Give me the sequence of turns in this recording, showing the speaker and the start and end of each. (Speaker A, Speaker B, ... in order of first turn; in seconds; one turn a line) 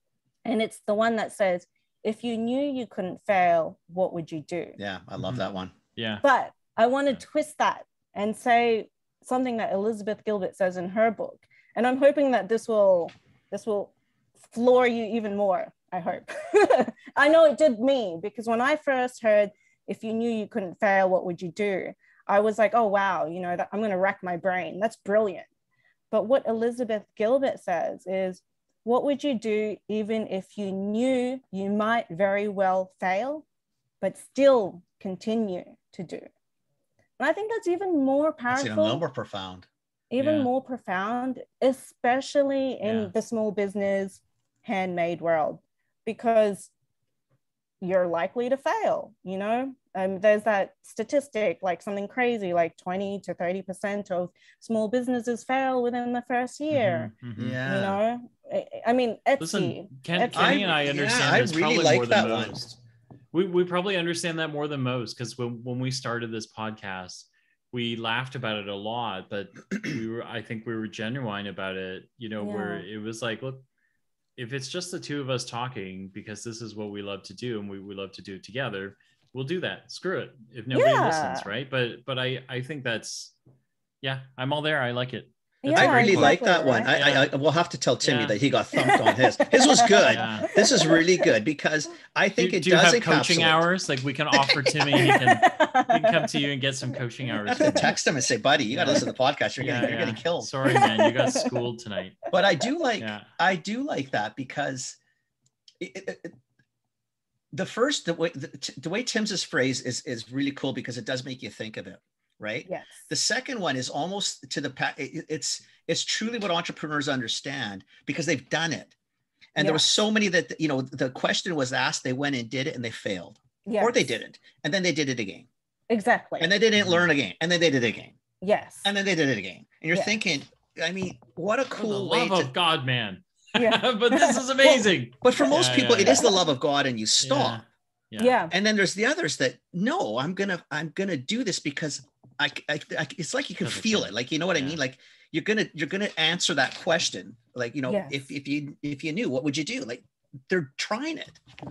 Speaker A: 0.4-4.8
Speaker B: 4.8-5.7
Speaker C: 6.0-6.2
Speaker A: 6.2-13.9
Speaker A: 14.4-25.5
Speaker A: 26.1-33.4
Speaker A: 34.0-36.3
Speaker A: 37.2-39.0
Speaker B: 38.5-39.7
Speaker A: 40.1-46.7
Speaker C: 40.2-40.5
Speaker C: 42.8-43.1
Speaker A: 47.8-61.0
Speaker C: 56.7-57.6
Speaker B: 57.4-58.0
Speaker C: 59.4-62.8
Speaker B: 60.3-62.5
Speaker C: 63.3-73.6
Speaker A: 72.4-72.8
Speaker C: 74.3-83.3
Speaker A: 80.7-81.5
Speaker C: 84.0-87.3
Speaker A: 85.6-86.9
Speaker B: 85.7-93.6
Speaker C: 88.0-88.4
Speaker A: 88.8-91.3
Speaker C: 90.1-90.5
Speaker C: 92.4-98.0
Speaker B: 94.3-95.2
Speaker A: 95.0-96.4
Speaker B: 97.5-100.5
Speaker A: 97.5-97.9
Speaker C: 98.7-99.1
Speaker C: 99.6-102.2
Speaker A: 100.6-101.5
Speaker B: 102.3-105.0
Speaker C: 103.0-103.3
Speaker B: 105.8-106.3
Speaker B: 107.5-118.9
Speaker A: 112.7-113.0
Speaker B: 119.5-125.5
Speaker A: 119.6-119.8
Speaker A: 123.6-124.0
Speaker A: 125.9-126.5
Speaker B: 126.4-128.2
Speaker C: 126.8-127.1
Speaker A: 128.4-128.9
Speaker B: 128.8-132.5
Speaker A: 129.9-130.2
Speaker C: 131.8-136.2
Speaker A: 133.5-134.8
Speaker B: 135.2-137.6
Speaker A: 135.9-136.4
Speaker C: 137.2-138.3
Speaker A: 138.2-138.5
Speaker B: 138.5-151.4
Speaker C: 143.6-144.8
Speaker A: 147.9-148.2